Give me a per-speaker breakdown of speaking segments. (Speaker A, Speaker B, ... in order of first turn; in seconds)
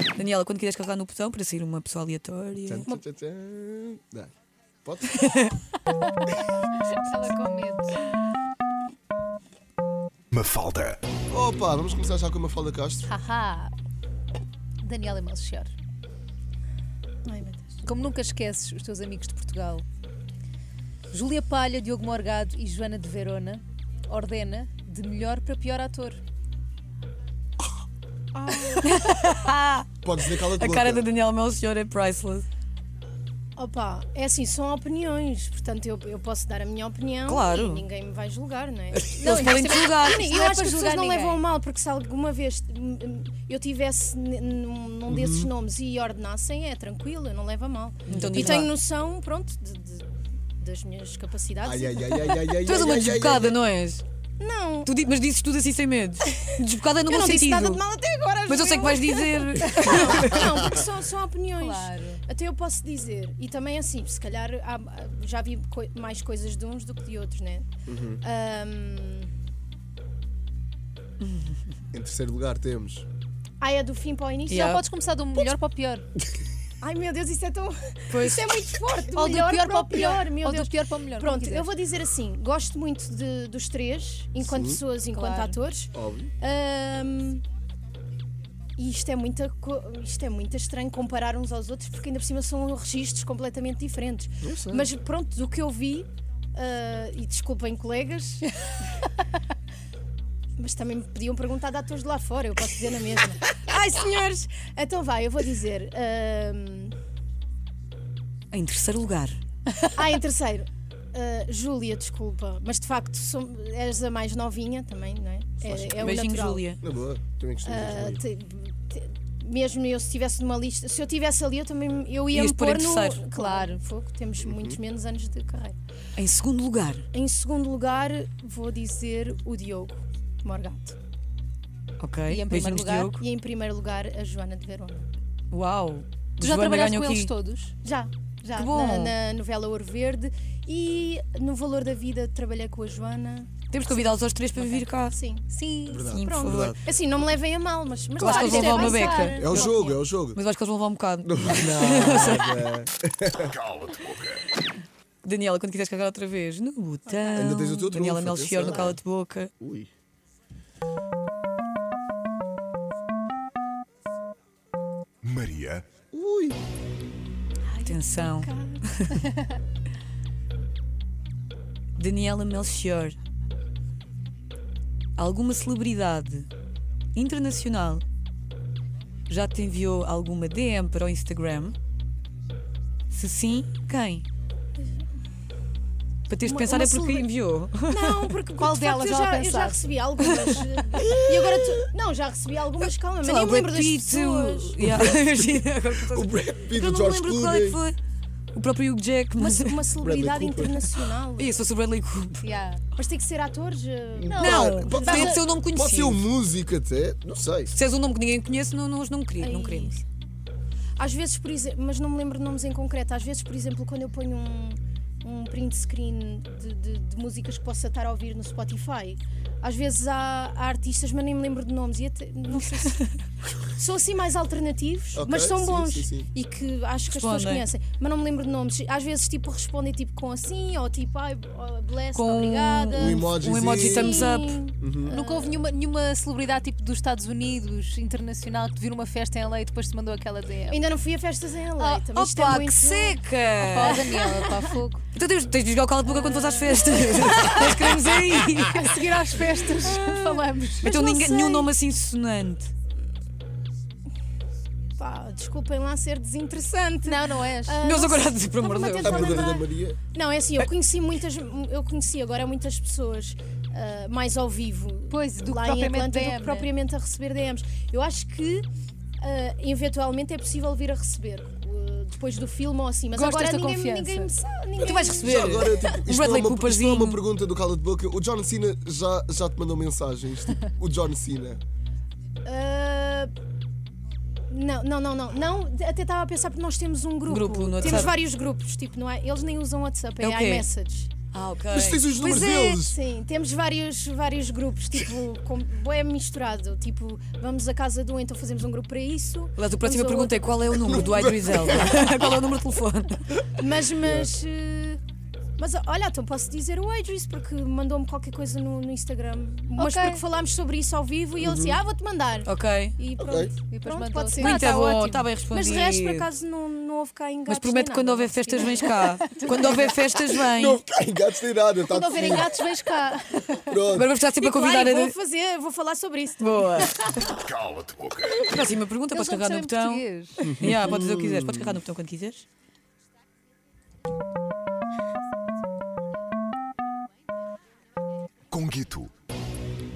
Speaker A: 0.1-2.9, 5.2-5.5, 28.8-32.5, 37.2-37.8, 38.9-40.3, 48.1-48.7, 52.6-54.0, 54.8-57.8, 58.5-60.5, 71.2-71.5, 74.5-74.8, 78.1-78.5, 108.5-109.4, 116.0-116.8, 122.3-123.3, 126.2-127.0, 132.0-133.2, 135.5-137.3, 138.5-139.1, 143.7-145.2, 146.1-146.8, 148.2-149.4, 150.3-152.7, 155.2-159.5, 167.8-169.3, 172.0-173.2, 175.2-176.5, 177.1-178.0, 179.3-181.8, 183.1-184.2, 186.3-188.3, 190.2-190.6, 193.2-198.0, 198.5-199.8, 201.4-202.4, 204.3-206.2, 207.7-210.0, 227.1-227.7, 232.1-234.6, 242.1-244.3, 245.1-248.8, 250.8-252.7, 257.8-259.5, 274.8-277.2, 287.3-288.1, 290.2-290.6, 291.3-292.1, 299.6-303.4, 312.4-312.9, 314.4-316.3, 317.5-320.8, 323.9-325.1, 326.4-327.4, 328.4-332.4
Speaker B: 2.6-4.3, 4.8-5.2, 11.3-13.1, 30.0-31.1, 45.1-45.5, 51.6-53.6, 67.8-68.2, 71.9-73.0, 84.4-84.8, 85.9-86.3, 94.4-94.9, 115.6-116.2, 116.8-118.2, 124.4-124.8, 145.9-146.8, 149.4-150.4, 151.2-153.6, 157.3-159.0, 159.6-159.9, 166.1-166.6, 191.0-191.8, 194.8-197.8, 200.0-200.8, 204.1-207.7, 225.1-226.3, 232.9-234.2, 234.8-235.2, 259.0-260.0, 274.9-281.6, 291.7-293.0, 301.3-301.8, 303.9-304.3, 311.4-311.8, 313.2-313.5, 320.4-322.6, 323.6-324.1, 330.4-331.8
Speaker C: 6.8-8.0, 13.1-13.7, 14.8-15.7, 17.8-19.8, 21.1-26.2, 40.1-41.4, 59.6-60.0, 61.5-62.2, 74.5-76.1, 79.0-81.7, 85.1-85.5, 123.3-123.8, 132.3-133.2, 136.4-137.8, 145.5-146.1, 148.2-150.0, 188.6-189.8, 202.4-202.8, 235.1-240.8, 241.8-242.1, 243.6-245.0, 246.8-247.9, 248.5-251.1, 257.0-257.8, 265.1-266.7, 273.1-274.3, 309.8-310.2, 313.7-314.7, 318.7-320.2, 322.1-323.8, 329.1-330.5
Speaker D: 10.3-11.0, 153.6-154.4, 165.2-165.9, 327.4-328.3, 338.5-339.1
Speaker E: 17.2-17.8, 28.3-28.9, 33.5-52.5, 54.4-54.9, 57.0-67.7, 68.2-69.3, 73.6-74.7, 76.8-87.4, 88.8-98.9, 100.6-106.9, 109.8-116.6, 117.6-125.7, 127.1-130.9, 133.2-135.1, 137.8-143.6, 144.6-145.5, 146.1-149.9, 157.1-157.6, 158.7-158.9, 167.7-168.8, 184.8-185.1, 186.4-187.3, 187.9-194.8, 199.4-201.6, 203.0-205.4, 209.4-210.0, 211.0-223.0, 223.8-235.6, 240.7-243.2, 243.8-244.7, 246.1-247.1, 249.6-251.7, 255.0-268.7, 269.2-275.8, 282.4-283.3, 284.5-291.1, 292.2-301.7, 303.5-305.0, 305.6-319.7, 321.9-323.4, 324.3-326.9